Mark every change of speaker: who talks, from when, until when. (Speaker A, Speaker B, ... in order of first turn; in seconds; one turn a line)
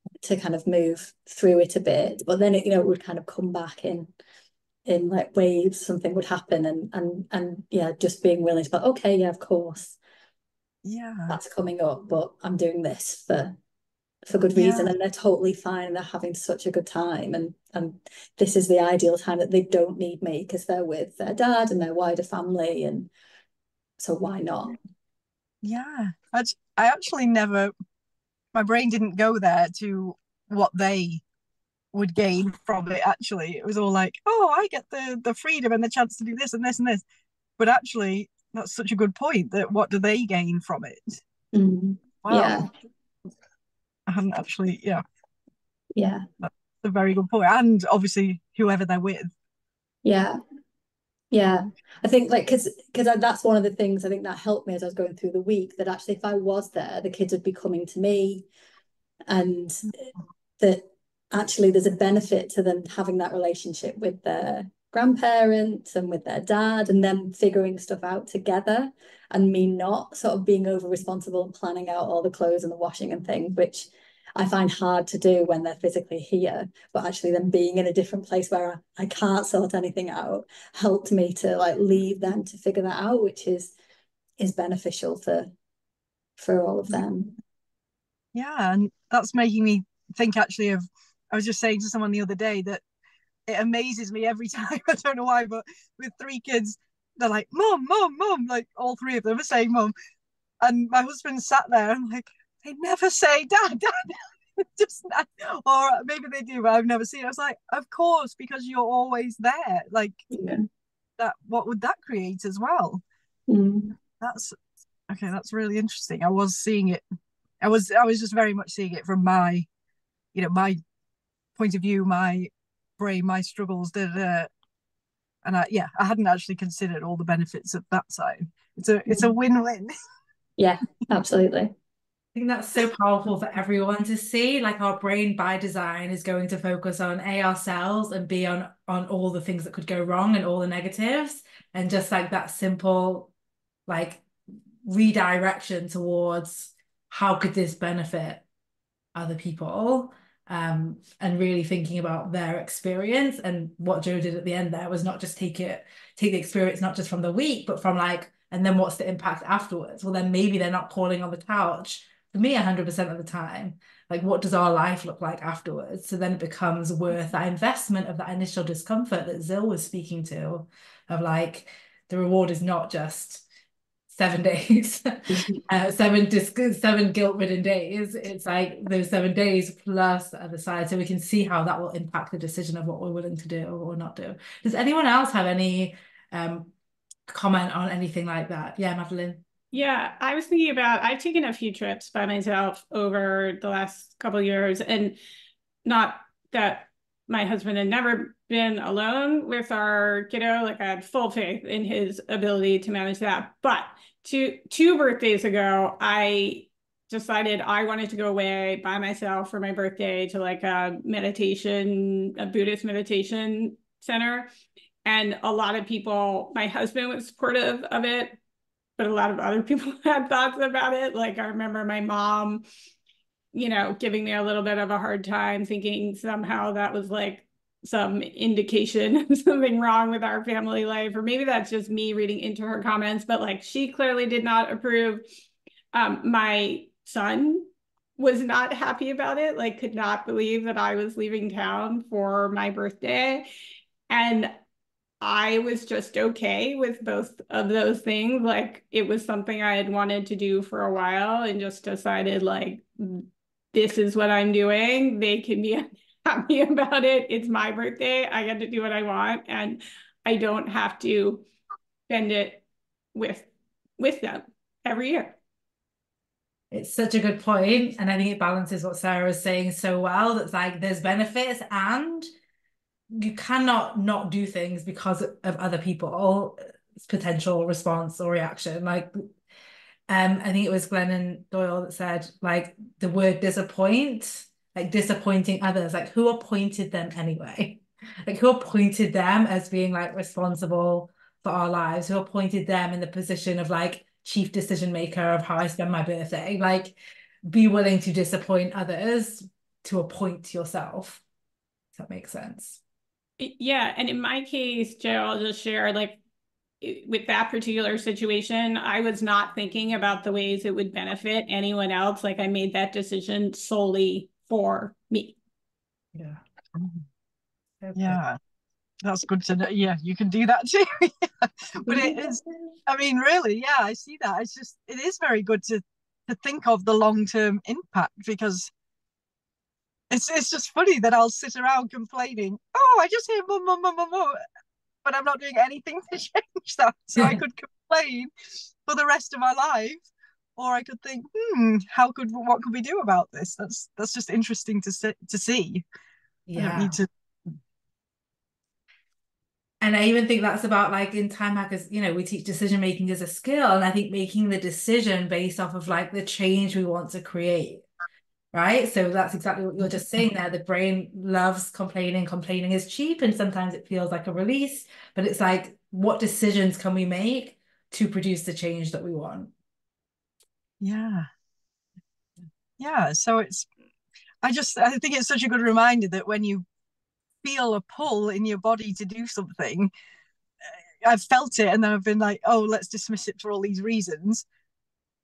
Speaker A: 0.2-4.1
Speaker A: 4.8-10.0
Speaker B: 10.8-11.4
Speaker A: 11.3-13.6
Speaker A: 14.3-23.1
Speaker B: 14.6-14.9
Speaker A: 24.0-24.8
Speaker B: 25.6-27.7
Speaker B: 28.5-31.2
Speaker B: 31.9-37.0
Speaker B: 37.6-41.2
Speaker A: 41.5-42.7
Speaker B: 42.2-42.6
Speaker B: 44.1-45.0
Speaker A: 45.9-46.3
Speaker B: 46.4-49.3
Speaker A: 50.0-50.4
Speaker A: 51.3-58.5
Speaker A: 59.3-60.1
Speaker A: 60.6-83.7
Speaker A: 84.4-85.5
Speaker A: 86.4-87.3
Speaker B: 88.3-92.8
Speaker B: 93.5-99.9
Speaker B: 100.6-110.2
Speaker A: 110.3-110.6
Speaker B: 111.2-113.0
Speaker A: 113.5-114.0
Speaker B: 114.2-114.6
Speaker B: 115.1-117.0
Speaker B: 117.6-119.7
Speaker B: 120.3-120.8
Speaker B: 121.5-124.5
Speaker B: 125.4-129.9
Speaker A: 130.6-131.7
Speaker C: 132.3-143.3
Speaker C: 143.9-144.2
Speaker C: 144.8-148.4
Speaker C: 149.1-173.4
Speaker C: 174.1-186.7
Speaker C: 187.3-189.4
Speaker D: 189.7-195.2
Speaker D: 195.8-214.5
Speaker D: 215.0-218.4
Speaker D: 219.0-222.6
Speaker D: 223.5-235.2
Speaker D: 235.9-243.4
Speaker D: 244.1-244.5
Speaker D: 245.2-261.4
Speaker D: 262.1-265.4
Speaker C: 266.7-272.3
Speaker C: 273.1-279.1
Speaker C: 280.1-296.9
Speaker C: 297.5-301.2
Speaker C: 301.9-302.8
Speaker D: 303.4-306.2
Speaker D: 306.8-315.4
Speaker C: 316.1-316.9
Speaker C: 317.8-318.2
Speaker B: 317.9-318.4
Speaker B: 319.0-328.7
Speaker B: 330.1-334.4
Speaker B: 335.0-338.3
Speaker C: 337.1-337.4
Speaker B: 338.8-340.1
Speaker B: 340.6-345.8
Speaker C: 346.5-347.0
Speaker B: 346.6-347.1
Speaker C: 349.8-357.9
Speaker C: 358.5-369.5
Speaker B: 370.8-371.3
Speaker B: 372.8-373.7
Speaker B: 374.4-376.6
Speaker B: 377.4-379.9
Speaker B: 381.0-384.4